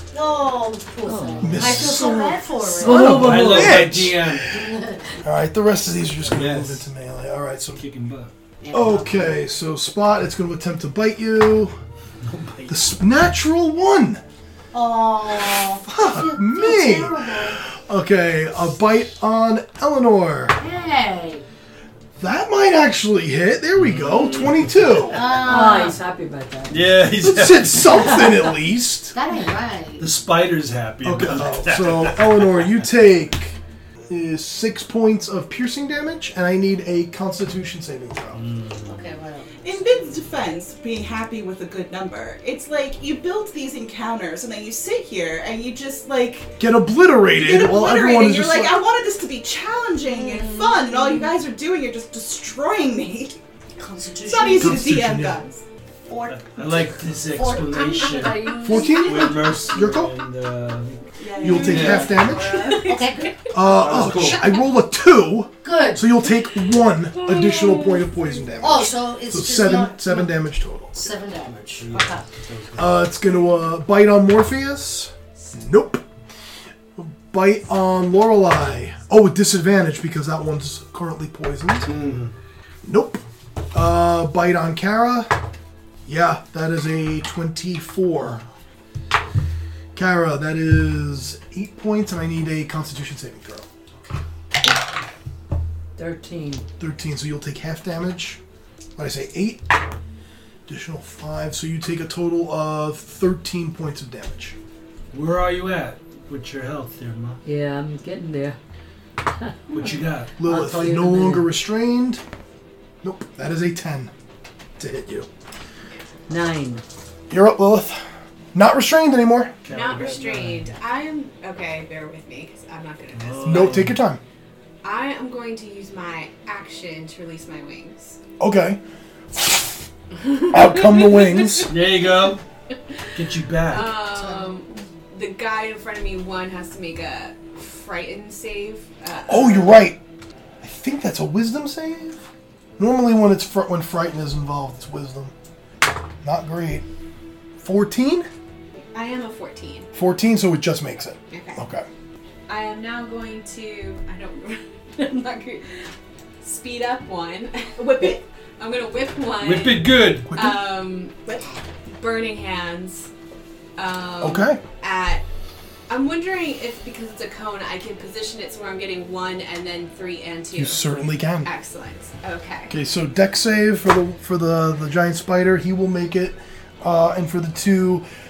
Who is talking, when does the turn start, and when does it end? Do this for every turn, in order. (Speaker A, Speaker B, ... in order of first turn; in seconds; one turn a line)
Speaker A: 0.1-3.3
Speaker B: 1.0-1.9
Speaker C: 1.4-4.6
Speaker B: 2.8-3.9
Speaker D: 2.8-4.5
Speaker A: 4.4-5.2
Speaker C: 5.2-7.8
Speaker D: 6.3-6.9
Speaker D: 7.7-8.3
Speaker A: 8.6-9.4
Speaker C: 8.7-11.7
Speaker D: 12.2-12.9
Speaker C: 12.7-14.2
Speaker A: 14.7-17.6
Speaker C: 15.8-20.6
Speaker A: 20.6-21.4
Speaker C: 22.2-25.2
Speaker D: 23.8-25.3
Speaker A: 25.1-26.0
Speaker B: 25.4-26.9
Speaker D: 26.7-28.3
Speaker C: 27.2-29.1
Speaker A: 29.1-30.1
Speaker D: 30.0-32.7
Speaker C: 31.0-33.6
Speaker C: 34.1-38.4
Speaker D: 38.3-38.9
Speaker A: 38.9-39.7
Speaker E: 39.6-46.5
Speaker C: 46.6-48.8
Speaker E: 47.3-53.4
Speaker F: 50.3-51.1
Speaker A: 53.8-54.8
Speaker E: 54.2-55.6
Speaker C: 54.6-55.4
Speaker A: 56.1-59.5
Speaker D: 56.3-62.3
Speaker C: 58.6-60.1
Speaker E: 61.2-63.0
Speaker C: 61.4-62.5
Speaker F: 62.4-63.3
Speaker A: 62.8-63.3
Speaker C: 63.5-70.9
Speaker D: 63.6-64.6
Speaker A: 65.6-66.1
Speaker F: 67.2-68.5
Speaker A: 68.6-72.2
Speaker D: 71.8-73.1
Speaker C: 72.8-76.0
Speaker C: 77.0-82.0
Speaker D: 81.8-82.3
Speaker C: 82.8-85.3
Speaker C: 86.0-88.4
Speaker C: 89.9-93.7
Speaker B: 96.0-96.6
Speaker C: 96.8-98.4
Speaker C: 99.0-99.8
Speaker C: 100.7-104.5
Speaker D: 105.1-107.4
Speaker B: 107.4-108.6
Speaker B: 109.4-111.5
Speaker D: 109.7-110.4
Speaker C: 110.4-112.2
Speaker C: 113.0-114.1
Speaker C: 114.8-115.3
Speaker B: 116.3-116.8
Speaker C: 117.3-118.0
Speaker C: 118.5-119.5
Speaker D: 119.6-120.7
Speaker F: 119.7-123.9
Speaker D: 123.1-124.0
Speaker C: 123.4-124.2
Speaker F: 124.8-128.2
Speaker C: 128.4-128.8
Speaker F: 130.3-132.3
Speaker C: 130.5-131.7
Speaker D: 131.7-132.4
Speaker D: 133.1-134.0
Speaker F: 133.2-139.9
Speaker A: 134.1-134.5
Speaker C: 139.3-140.0
Speaker C: 140.6-142.2
Speaker C: 142.8-145.3
Speaker C: 146.2-146.8
Speaker C: 147.6-148.3
Speaker F: 148.9-149.9
Speaker C: 149.9-151.8
Speaker F: 151.3-151.6
Speaker F: 152.5-155.9
Speaker F: 156.4-163.1
Speaker E: 157.8-158.2
Speaker D: 159.4-160.4
Speaker C: 160.3-160.6
Speaker F: 163.8-165.2
Speaker C: 164.2-164.6
Speaker F: 165.9-172.8
Speaker C: 170.5-171.5
Speaker C: 172.7-178.1